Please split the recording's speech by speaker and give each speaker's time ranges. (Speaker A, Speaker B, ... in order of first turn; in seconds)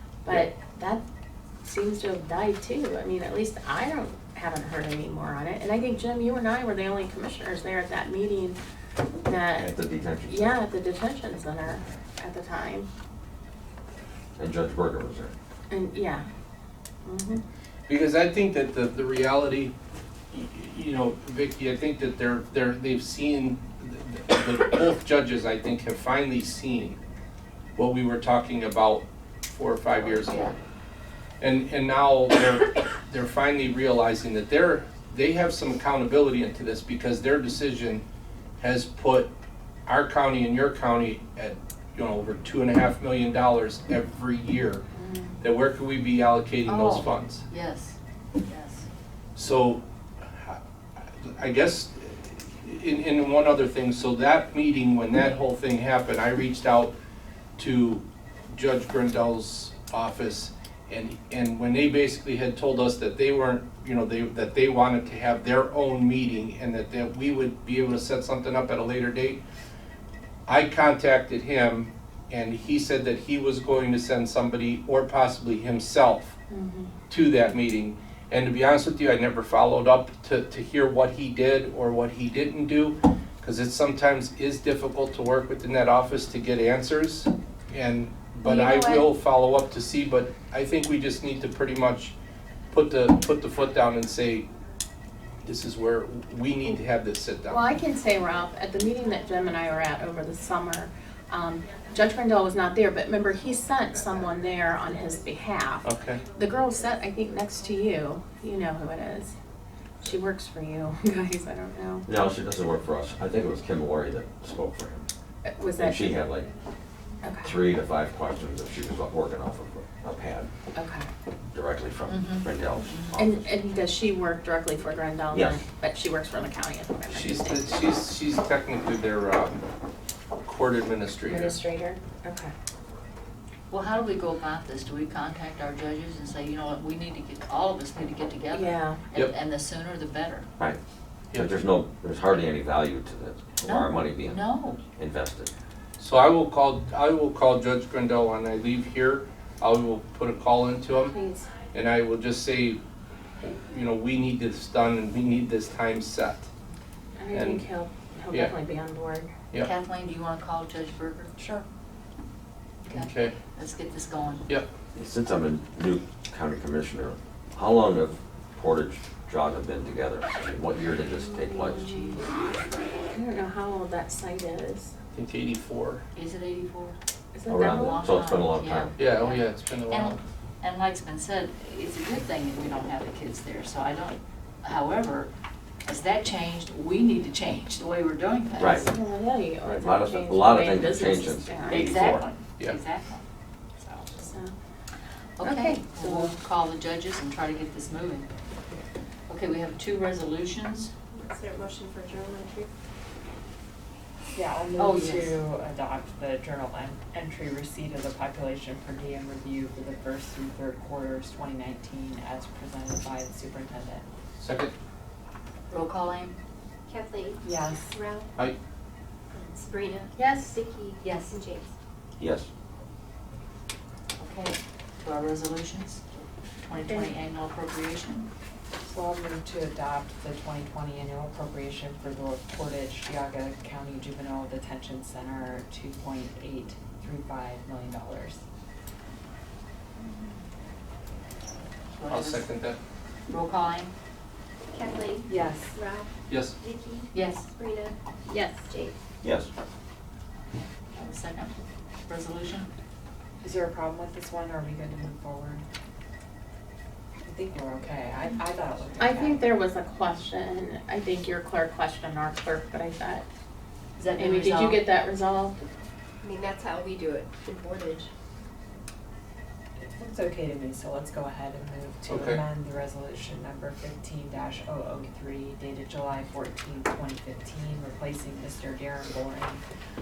Speaker A: 0.2-1.0, 1.6-8.6, 9.2-9.7, 10.2-12.9, 15.7-16.2, 17.0-17.4, 44.9-45.4, 76.5-76.9, 88.4-89.1, 97.5-109.3, 110.0-112.1, 115.4-116.1, 117.2-117.5, 120.7-121.1, 123.2-127.9, 131.2-132.5, 138.5-139.0, 151.0-151.5, 157.2-159.3, 171.3-172.2, 173.1-174.9, 177.3-178.0, 188.7-191.9, 194.1-194.5, 195.4-196.3, 220.2-220.6, 226.8-227.1, 259.0-263.2, 264.1-265.6
Speaker B: 9.5-10.5, 14.4-15.3, 112.0-115.1, 115.8-116.5, 117.4-120.5, 121.5-123.4, 125.3-125.6, 141.3-145.5, 164.9-172.1, 177.5-178.9, 188.6-188.9, 189.7-192.2, 222.2-222.5, 249.2-249.5
Speaker C: 17.9-19.7, 20.3-27.0, 27.8-30.5, 31.4-38.0, 38.6-39.3, 39.9-44.8, 45.4-47.4, 49.4-56.9, 57.6-69.4, 70.5-76.4, 77.1-92.1, 92.7-94.5, 95.4-97.7, 105.8-106.2, 127.1-129.6, 130.4-131.6, 146.0-151.1, 151.7-152.8, 153.4-156.5, 157.3-157.7, 162.9-163.3, 175.1-176.0, 179.0-180.2, 214.4-214.7, 242.1-242.8, 246.3-246.6, 272.1-272.4
Speaker D: 30.1-30.5, 46.6-48.9, 122.1-123.2, 133.7-140.5, 143.6-144.8, 159.6-161.3, 162.8-164.4, 171.9-172.2, 176.1-177.0, 177.5-185.3, 185.8-188.9, 191.7-193.2, 195.4-198.3, 199.3-200.9, 204.8-205.4, 215.7-216.4, 221.0-221.4, 224.2-226.0, 226.6-228.3, 240.0-240.4, 241.9-242.5, 243.3-243.9, 247.1-247.5, 250.9-251.5, 252.1-252.7, 264.0-264.8
Speaker E: 161.4-161.6, 204.3-214.1, 217.4-217.9, 228.8-238.4, 245.2-245.8, 253.4-255.6, 257.2-259.6, 269.8-279.6
Speaker F: 201.1-202.7, 216.9-218.3, 219.3-221.7, 244.7-248.9, 266.2-268.1